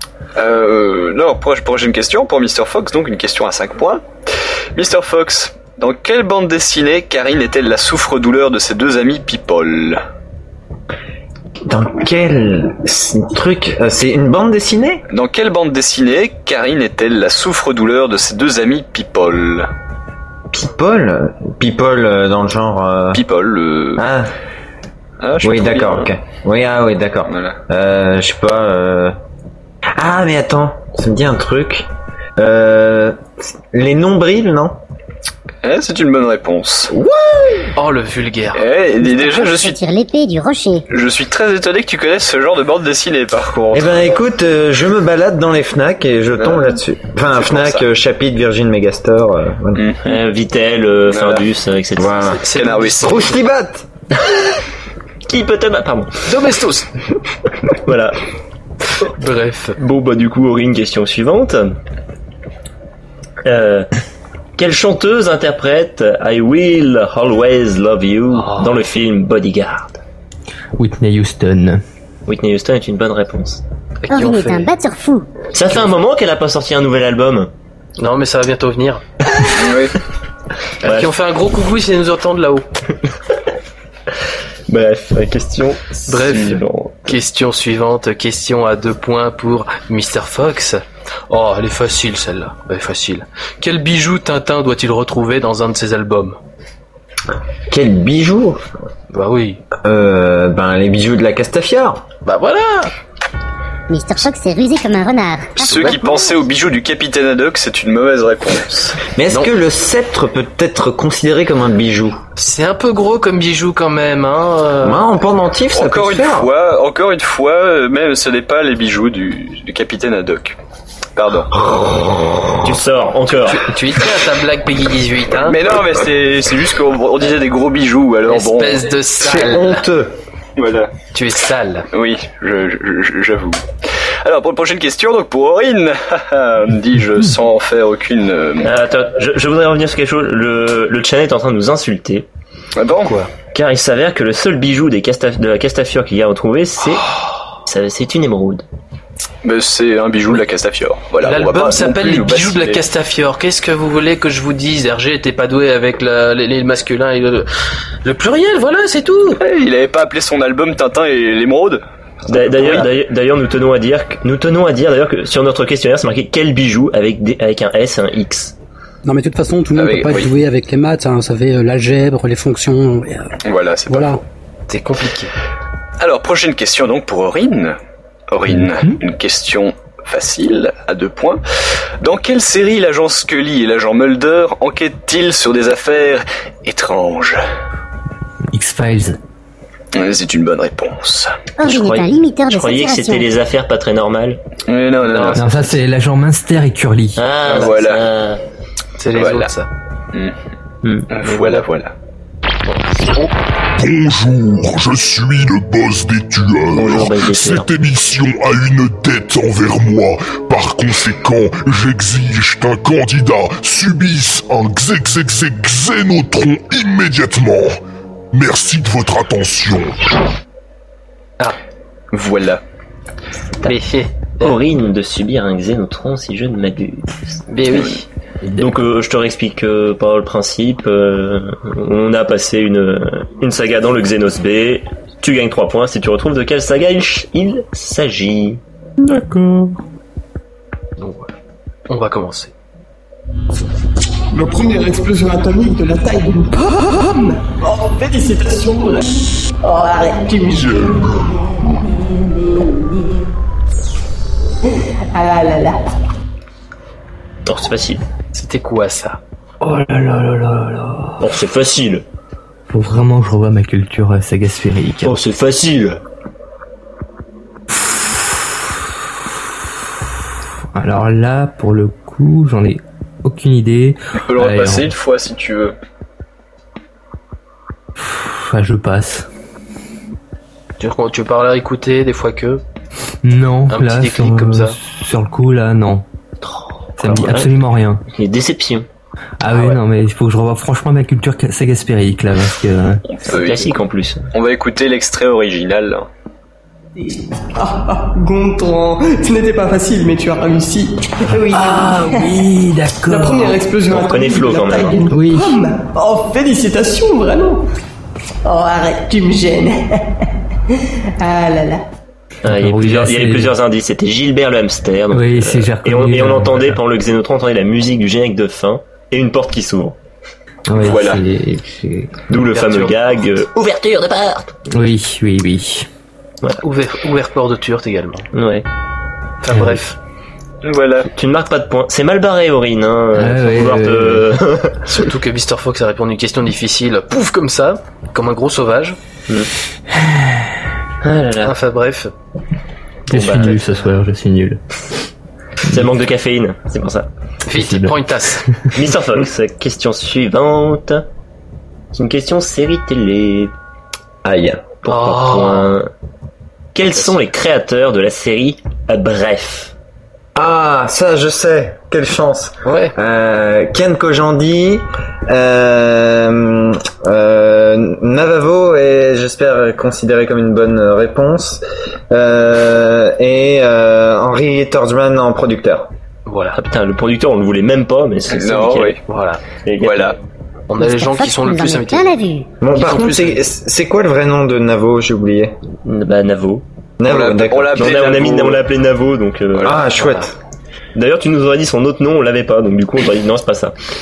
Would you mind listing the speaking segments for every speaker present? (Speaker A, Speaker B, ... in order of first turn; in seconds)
Speaker A: 0.4-4.0, 4.8-10.0, 15.1-19.7, 23.1-24.1, 25.2-26.1, 27.3-27.6, 35.6-36.9, 38.5-39.8, 40.9-43.9, 46.4-46.8, 47.3-47.9, 49.8-50.0, 51.1-51.5, 52.5-53.2, 79.5-80.0, 105.6-109.0, 115.7-120.6, 121.2-121.5, 125.5-128.9, 130.6-130.9, 131.9-138.7, 142.8-143.1, 149.4-152.8, 159.4-161.8, 162.4-162.8, 169.8-170.3, 173.4-174.2, 176.0-177.8, 178.3-181.4, 182.0-187.4, 189.9-191.3, 194.7-195.5, 197.5-198.0, 199.2-199.5, 201.1-201.9, 222.1-222.6, 274.3-275.8, 293.1-293.7, 294.3-296.1, 320.8-321.2, 330.6-331.1, 378.3-379.0, 379.8-380.2, 387.1-388.6
Speaker B: 11.7-15.0, 20.5-23.2, 24.0-24.3, 25.4-29.1, 29.9-34.8, 36.9-37.6, 43.7-49.9, 52.0-52.5, 53.0-53.9, 97.7-98.6, 99.8-102.0, 109.2-112.2, 114.8-116.5, 121.6-122.5, 129.2-130.1, 354.2-354.7, 360.4-375.9, 382.6-385.6, 387.0-387.9, 389.6-390.4
Speaker C: 37.8-38.6, 52.2-53.4, 56.3-56.9, 59.2-59.8, 68.3-68.8, 74.0-74.7, 78.0-79.0, 80.8-82.7, 86.1-96.4, 99.1-99.6, 102.2-102.9, 105.7-106.3, 112.4-115.0, 123.5-125.6, 128.3-129.8, 131.1-131.9, 151.2-157.5, 158.0-159.4, 174.7-175.3, 195.1-195.7, 199.0-199.7, 201.2-201.6, 202.7-203.3, 223.6-224.6, 227.5-228.1, 241.0-241.3, 241.9-242.5, 258.3-259.2, 280.8-282.6, 283.7-284.8, 289.5-289.8, 322.5-323.2, 326.6-328.3, 329.4-330.0, 334.9-339.0, 341.4-342.1, 347.5-348.5, 354.9-355.8, 356.9-357.2, 362.6-362.9, 376.3-376.6, 379.1-379.4, 380.7-382.1, 382.7-383.4, 389.9-390.3
Speaker D: 39.0-40.8, 74.1-75.3, 103.9-105.9, 191.6-193.3, 380.8-382.5
Speaker E: 50.0-52.3, 55.3-56.1, 57.8-58.2, 59.8-61.8, 63.4-63.9, 64.6-70.0, 72.3-73.6, 75.5-77.5, 80.8-81.1, 84.7-87.2, 122.6-123.7, 138.6-142.3, 143.5-147.1, 147.7-148.7, 162.3-168.6, 191.6-194.4, 197.2-198.4, 206.7-207.7, 224.4-227.2, 228.6-238.6, 257.5-258.0, 261.2-262.0, 265.0-266.0, 286.4-288.9, 293.3-294.2, 303.9-305.1, 312.4-320.0, 322.3-324.6, 328.3-328.7, 331.1-334.8, 341.0-341.6, 343.1-343.6, 345.7-347.1, 348.8-351.1, 351.9-353.5, 354.8-355.9, 356.7-359.7, 376.5-379.0, 379.6-380.2, 385.8-386.6, 387.7-389.8, 390.9-393.8
Speaker F: 70.8-71.8, 178.5-179.0, 188.5-189.2, 195.3-197.2, 239.3-239.7, 259.6-261.2, 262.7-265.1, 270.8-274.9, 278.0-279.3, 283.2-286.1, 287.0-288.0, 289.4-293.0, 301.3-303.6, 305.1-305.6, 312.5-313.5, 315.1-316.8, 320.7-322.1, 324.7-325.9, 329.5-329.8, 333.2-334.3, 340.0-340.5, 343.1-344.6, 347.5-348.0
Speaker G: 169.1-173.3, 173.9-174.2
Speaker H: 203.8-217.8, 218.3-220.0, 250.5-251.2
Speaker I: 244.4-249.0, 249.7-251.0, 255.2-255.7, 297.0-302.4, 303.1-307.6, 308.5-309.7, 311.2-311.8